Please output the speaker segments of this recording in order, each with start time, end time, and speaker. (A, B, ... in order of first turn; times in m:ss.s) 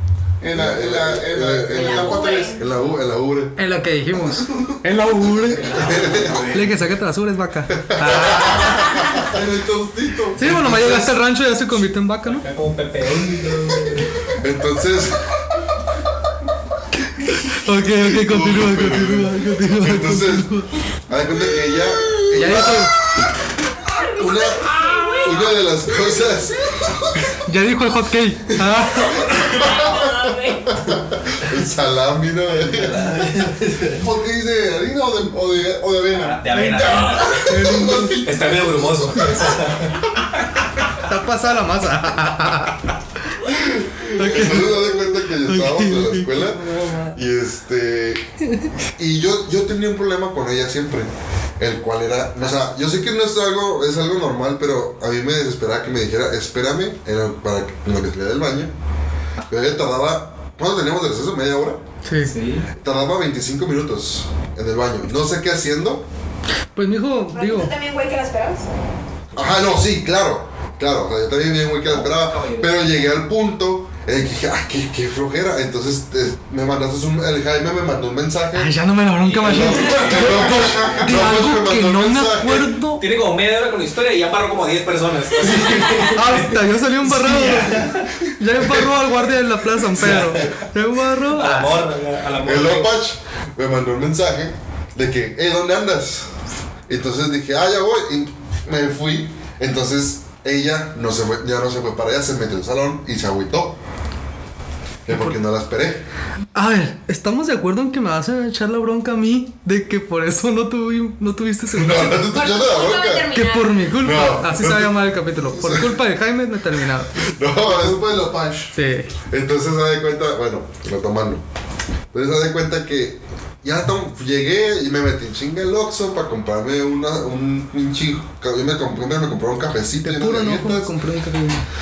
0:00.4-0:02.5 A
0:00.5-0:03.6 B
0:01.7-0:02.6 C
0:03.6-0:05.7 D
0:04.2-0:04.8 A
0:05.4-0:06.8 E
0:05.7-0:06.6 B
0:06.5-0:08.9 D
0:07.8-0:09.1 B
0:09.2-0:10.4 A
0:10.4-0:12.5 D
0:10.4-0:11.2 B
0:12.3-0:14.1 E
0:14.4-0:15.3 B
0:17.4-0:20.7 D
0:17.9-0:20.5 B
0:21.1-0:22.9 B
0:22.3-0:22.9 D
0:23.9-0:25.4 C
0:24.2-0:26.9 B
0:27.4-0:29.3 D
0:29.2-0:30.8 C
0:29.6-0:29.9 B
0:30.7-0:33.1 B
0:32.5-0:34.0 E
0:33.9-0:39.6 A
0:36.1-0:37.6 E
0:36.7-0:38.2 D
0:38.2-0:40.3 E
0:41.0-0:42.9 D
0:44.0-0:48.2 B
0:44.1-0:47.2 D
0:49.0-0:58.7 B
0:59.5-1:01.8 B
1:02.0-1:02.3 D
1:02.2-1:02.7 E
1:02.8-1:06.0 B
1:06.8-1:07.7 D
1:07.3-1:08.7 C
1:09.4-1:18.7 B
1:11.8-1:12.9 E
1:18.5-1:23.1 D
1:19.2-1:21.0 E
1:19.4-1:22.8 B
1:23.0-1:28.3 E
1:25.9-1:31.8 D
1:30.0-1:30.6 E
1:30.1-1:30.5 B
1:31.3-1:32.9 E
1:32.4-1:36.3 B
1:36.9-1:43.8 B
1:45.1-1:46.0 B
1:45.1-1:45.4 D
1:46.6-1:52.4 D
1:51.7-1:53.3 B
1:52.3-1:53.8 C
1:53.3-1:57.1 D
1:54.0-1:56.0 B
1:57.1-1:58.2 B
1:57.6-1:58.7 A
1:58.7-1:59.1 D
1:59.3-2:01.4 B
2:02.1-2:10.9 B
2:10.0-2:11.6 D